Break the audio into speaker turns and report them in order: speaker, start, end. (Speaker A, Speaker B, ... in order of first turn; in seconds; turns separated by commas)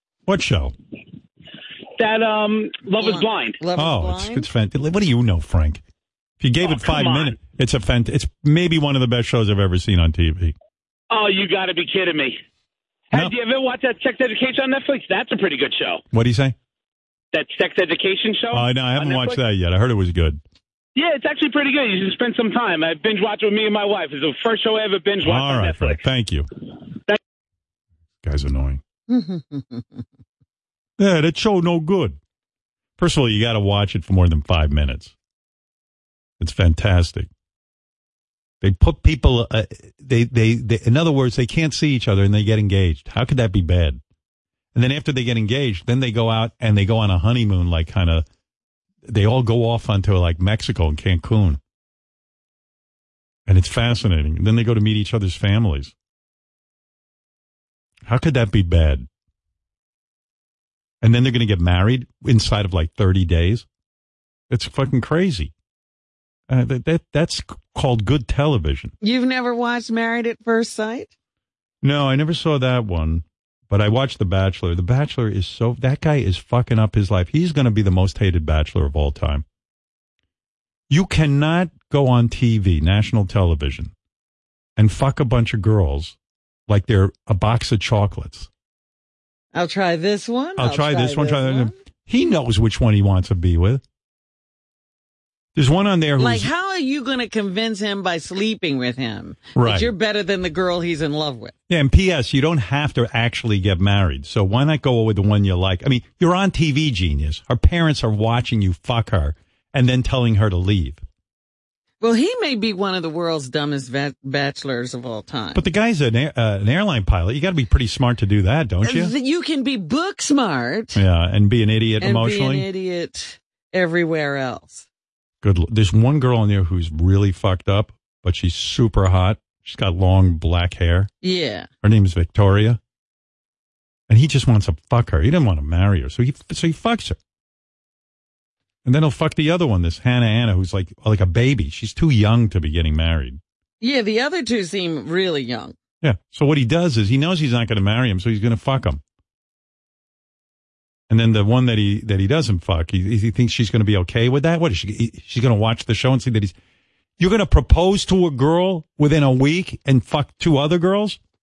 Speaker A: 0.3-0.7, Speaker B: 2.0-3.6, Speaker C: 3.0-4.5, Speaker A: 3.8-5.8, Speaker A: 6.4-10.6, Speaker B: 6.6-7.4, Speaker B: 11.1-12.4, Speaker B: 13.1-16.0, Speaker A: 16.1-16.6, Speaker B: 17.3-19.4, Speaker A: 18.5-20.4, Speaker B: 21.0-26.0, Speaker A: 25.2-26.5, Speaker A: 28.2-28.8, Speaker C: 29.1-30.0, Speaker A: 31.0-32.2, Speaker A: 33.0-35.1, Speaker A: 36.4-37.3, Speaker A: 38.6-44.0, Speaker A: 44.8-48.3, Speaker A: 49.0-51.6, Speaker A: 53.5-55.9, Speaker A: 58.1-59.1, Speaker A: 61.0-63.7, Speaker A: 64.5-65.5, Speaker A: 66.5-68.9, Speaker C: 69.0-71.1, Speaker A: 71.8-79.4, Speaker A: 80.9-83.9, Speaker A: 84.8-86.2, Speaker A: 86.7-88.5, Speaker C: 89.5-91.7, Speaker A: 90.6-93.8, Speaker A: 95.6-96.5, Speaker C: 96.2-101.5, Speaker A: 99.5-99.9, Speaker A: 101.7-111.0, Speaker C: 112.0-115.6, Speaker A: 115.5-119.1, Speaker C: 118.8-121.0, Speaker A: 121.0-122.7, Speaker C: 122.0-124.9, Speaker A: 125.4-131.1, Speaker C: 131.2-131.7, Speaker A: 131.8-132.8, Speaker A: 134.1-137.2, Speaker A: 138.8-143.4, Speaker C: 143.8-145.8, Speaker A: 146.0-149.0, Speaker A: 151.1-156.6, Speaker A: 157.2-161.2